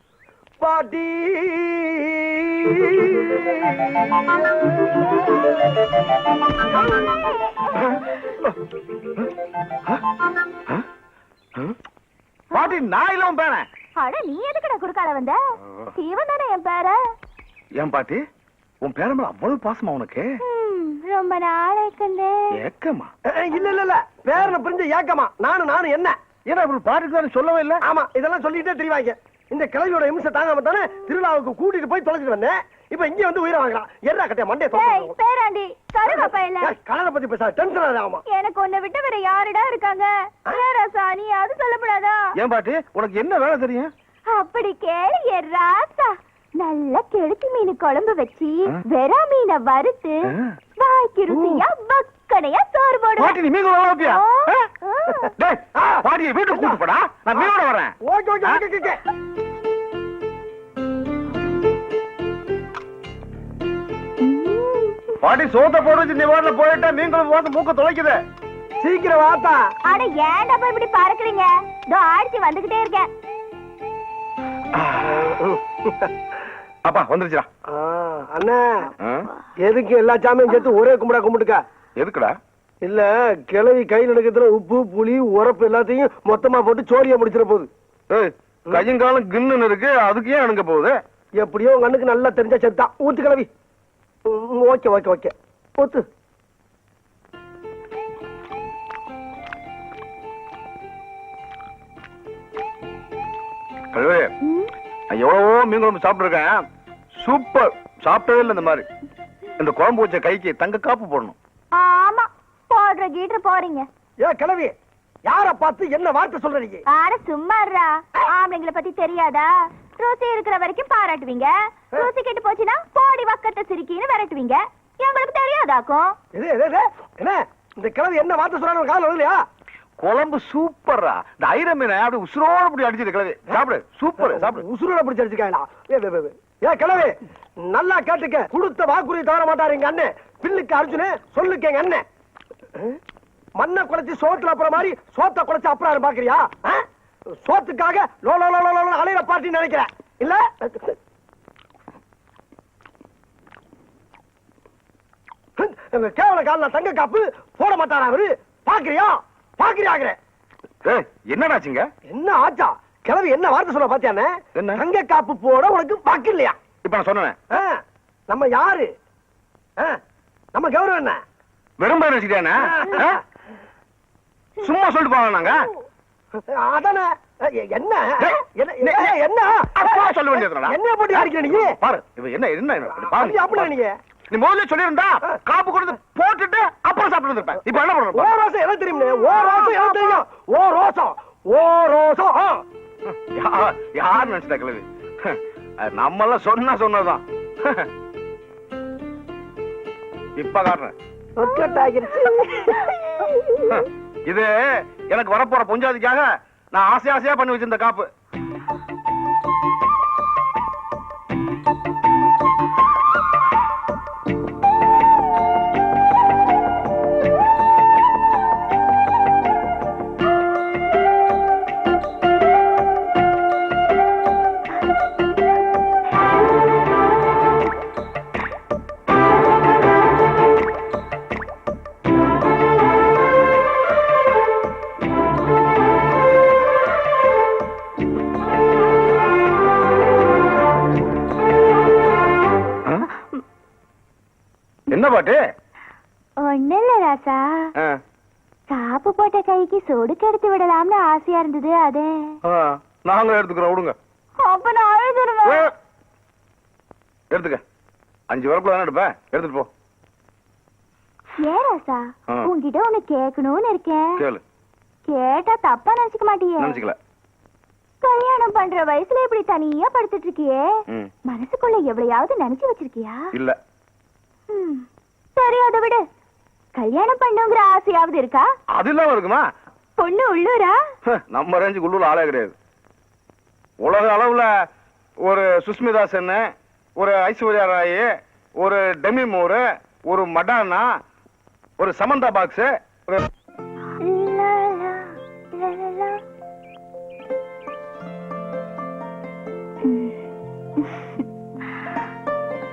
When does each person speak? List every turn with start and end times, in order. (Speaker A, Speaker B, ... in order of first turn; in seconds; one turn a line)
Speaker A: 0.6-4.2
Speaker B: 6.7-8.0
Speaker C: 7.7-8.6
Speaker B: 12.5-12.8
Speaker C: 12.5-13.7
Speaker B: 14.0-15.4
Speaker B: 15.9-17.0
Speaker C: 17.8-18.2
Speaker C: 18.8-20.3
Speaker B: 20.4-22.5
Speaker C: 22.5-23.1
Speaker A: 23.3-26.1
Speaker C: 26.5-27.8
Speaker A: 27.8-35.1
Speaker B: 34.7-36.7
Speaker A: 36.0-38.2
Speaker B: 38.3-42.3
Speaker C: 42.4-43.9
Speaker B: 44.3-53.4
Speaker C: 50.3-50.5
Speaker C: 51.3-51.6
Speaker C: 53.2-54.6
Speaker B: 54.0-55.3
Speaker C: 55.4-58.6
Speaker A: 55.8-56.8
Speaker A: 58.0-59.0
Speaker B: 64.2-65.2
Speaker C: 65.2-68.2
Speaker A: 68.8-69.6
Speaker B: 69.9-73.1
Speaker C: 74.7-75.3
Speaker A: 75.0-76.1
Speaker C: 76.8-77.5
Speaker A: 77.7-78.9
Speaker C: 79.0-79.3
Speaker A: 79.6-81.6
Speaker C: 82.0-82.3
Speaker A: 82.8-87.7
Speaker C: 88.1-91.0
Speaker A: 91.4-93.5
Speaker A: 94.3-96.0
Speaker C: 103.9-104.3
Speaker B: 104.4-104.7
Speaker C: 105.1-106.6
Speaker C: 107.2-108.8
Speaker C: 109.6-111.3
Speaker B: 111.7-113.8
Speaker A: 114.2-114.7
Speaker A: 115.2-116.8
Speaker B: 116.9-126.1
Speaker A: 126.3-129.4
Speaker C: 130.0-134.6
Speaker A: 134.2-142.0
Speaker A: 143.6-146.8
Speaker A: 147.4-151.0
Speaker A: 155.6-160.2
Speaker C: 160.8-161.9
Speaker A: 162.1-166.6
Speaker C: 164.6-164.8
Speaker C: 166.8-167.4
Speaker A: 167.5-168.9
Speaker A: 170.5-171.2
Speaker C: 171.8-173.2
Speaker A: 172.6-173.2
Speaker C: 174.6-175.7
Speaker A: 176.5-181.8
Speaker C: 178.2-179.1
Speaker C: 179.8-183.7
Speaker A: 182.9-183.9
Speaker C: 184.3-188.3
Speaker A: 188.1-192.6
Speaker B: 189.2-190.2
Speaker C: 193.1-197.9
Speaker C: 200.4-200.9
Speaker A: 201.4-203.6
Speaker B: 201.5-203.3
Speaker C: 203.7-208.1
Speaker B: 243.2-243.4
Speaker C: 244.9-245.4
Speaker B: 246.4-247.7
Speaker B: 248.7-252.3
Speaker C: 252.4-253.9
Speaker B: 254.4-255.7
Speaker C: 255.4-255.7
Speaker C: 257.3-257.6
Speaker C: 258.3-259.7
Speaker B: 261.4-264.2
Speaker C: 264.2-264.4
Speaker B: 265.1-266.8
Speaker C: 266.6-267.0
Speaker B: 268.0-270.7
Speaker B: 271.2-273.3
Speaker B: 274.5-276.0
Speaker B: 276.8-278.5
Speaker C: 278.7-279.4
Speaker B: 280.0-280.8
Speaker C: 281.1-282.5
Speaker C: 283.8-284.5
Speaker C: 285.2-286.4
Speaker C: 287.0-290.9
Speaker C: 291.8-293.3
Speaker B: 294.0-296.2
Speaker B: 299.8-300.2
Speaker B: 300.8-301.1